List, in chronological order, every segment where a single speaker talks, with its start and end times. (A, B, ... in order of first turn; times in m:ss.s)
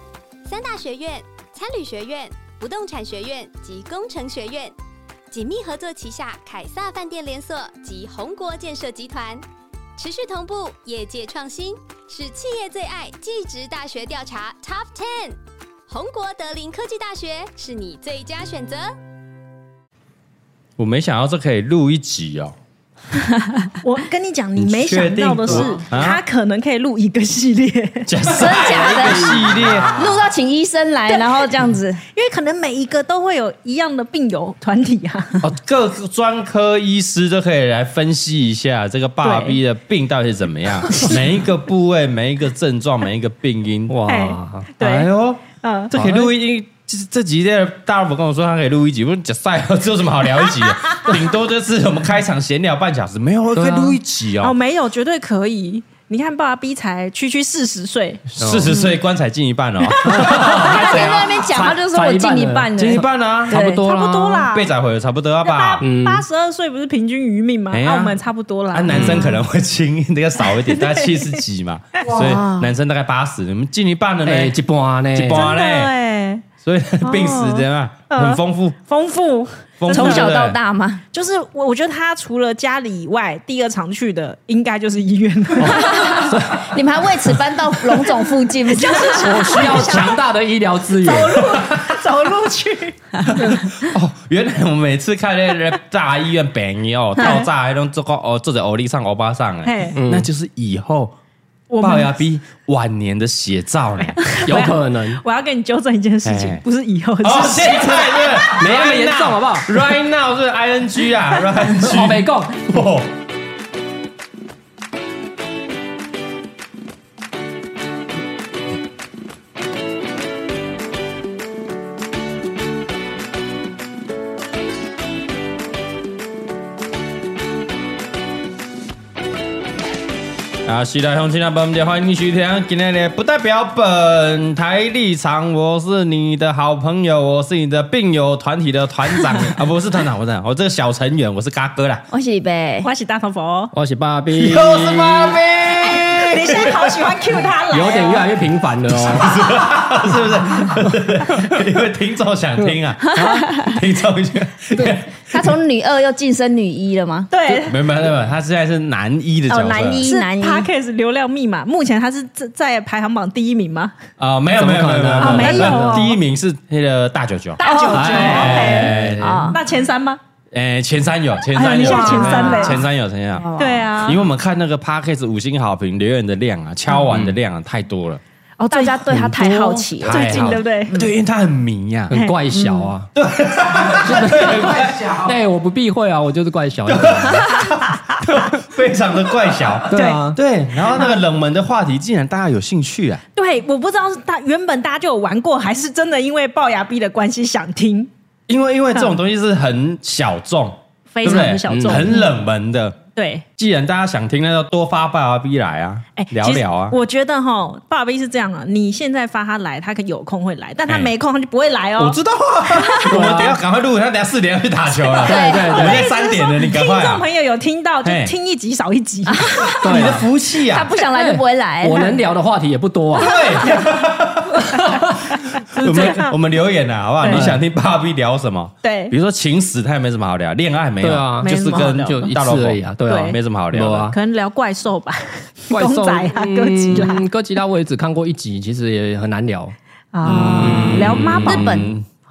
0:00.4-0:04.8 A
0:05.3-0:09.4 A
0:10.0-0:15.4 A
0:15.9-0:18.9 A
0:20.8-0:22.5 B
0:23.6-0:28.1 C
0:24.6-0:26.2 B
0:28.0-0:30.2 B
0:28.2-0:32.0 D
0:31.1-0:31.5 C
0:32.1-0:35.4 C
0:35.4-0:44.0 B
0:39.2-0:39.6 C
0:43.9-0:44.7 E
0:44.1-0:45.1 C
0:44.8-0:54.5 B
0:45.6-0:45.9 C
0:45.9-0:46.3 E
0:53.5-0:54.0 E
0:54.4-0:58.2 C
0:58.4-1:01.5 B
0:58.4-0:58.9 E
1:00.0-1:04.5 E
1:00.3-1:03.8 D
1:02.7-1:03.6 B
1:03.6-1:04.7 C
1:04.5-1:05.8 B
1:05.4-1:09.3 C
1:05.8-1:06.2 E
1:07.7-1:08.2 B
1:08.7-1:14.5 B
1:08.9-1:09.2 E
1:10.6-1:11.4 C
1:12.1-1:12.7 D
1:14.2-1:15.4 E
1:15.1-1:15.9 B
1:15.3-1:16.4 C
1:16.6-1:18.8 B
1:17.0-1:20.4 C
1:19.8-1:20.6 B
1:19.9-1:21.0 D
1:21.1-1:26.2 C
1:25.6-1:26.7 E
1:25.7-1:29.9 D
1:28.7-1:30.2 C
1:29.1-1:31.5 E
1:31.0-1:33.1 C
1:31.4-1:31.9 B
1:33.3-1:41.1 B
1:39.6-1:40.0 C
1:40.0-1:40.3 E
1:41.7-1:42.2 C
1:41.8-1:44.2 B
1:44.0-1:48.4 C
1:44.4-1:45.2 E
1:46.2-1:46.6 B
1:47.2-1:53.1 B
1:48.4-1:49.8 E
1:51.7-1:52.8 E
2:10.6-2:22.0 B
2:22.1-2:22.9 D
2:22.8-2:23.7 C
2:23.7-2:25.4 E
2:24.3-2:26.9 B
2:26.3-2:28.3 C
2:27.7-2:29.4 E
2:29.0-2:35.5 B
2:32.6-2:33.5 E
2:33.1-2:33.8 D
2:35.3-2:37.3 D
2:37.3-2:37.8 C
2:37.6-2:40.0 B
2:39.5-2:40.7 D
2:39.5-2:43.9 C
2:44.2-2:49.5 B
2:44.5-2:46.1 E
2:45.2-2:46.2 C
2:47.6-2:48.9 C
2:47.6-2:49.6 D
2:47.9-2:49.6 E
2:49.5-2:50.2 C
2:50.5-2:58.2 B
2:51.5-2:52.8 C
2:51.8-2:52.8 D
2:52.2-2:52.6 E
2:53.4-2:53.9 D
2:53.6-2:54.2 C
2:58.6-3:00.9 C
2:58.6-3:01.1 D
2:59.0-3:00.6 E
3:00.0-3:02.1 B
3:02.1-3:03.1 E
3:02.1-3:02.4 C
3:02.5-3:02.9 D
3:03.1-3:05.3 B
3:03.9-3:07.4 E
3:06.9-3:13.2 B
3:09.9-3:10.4 E
3:09.9-3:10.2 C
3:13.4-3:18.1 C
3:18.5-3:23.0 B
3:21.1-3:22.3 C
3:21.2-3:22.2 E
3:23.2-3:23.4 C
3:23.6-3:27.0 B
3:26.2-3:32.2 C
3:32.0-3:37.2 B
3:33.0-3:33.6 E
3:35.2-3:36.0 E
3:35.2-3:35.7 D
3:35.6-3:39.8 C
3:38.0-3:38.3 B
3:39.3-3:40.1 D
3:39.8-3:40.2 E
3:39.8-3:40.9 B
3:40.7-3:42.1 D
3:41.0-3:43.6 E
3:43.2-3:54.1 B
3:43.4-3:43.9 C
3:45.5-3:46.3 C
3:47.2-3:47.5 C
3:47.2-3:47.6 E
3:48.8-3:49.1 C
3:51.0-3:54.2 E
3:51.4-3:51.9 C
3:53.1-3:53.3 C
3:54.1-3:57.3 C
3:55.7-4:01.9 E
4:00.1-4:01.9 C
4:00.2-4:02.0 B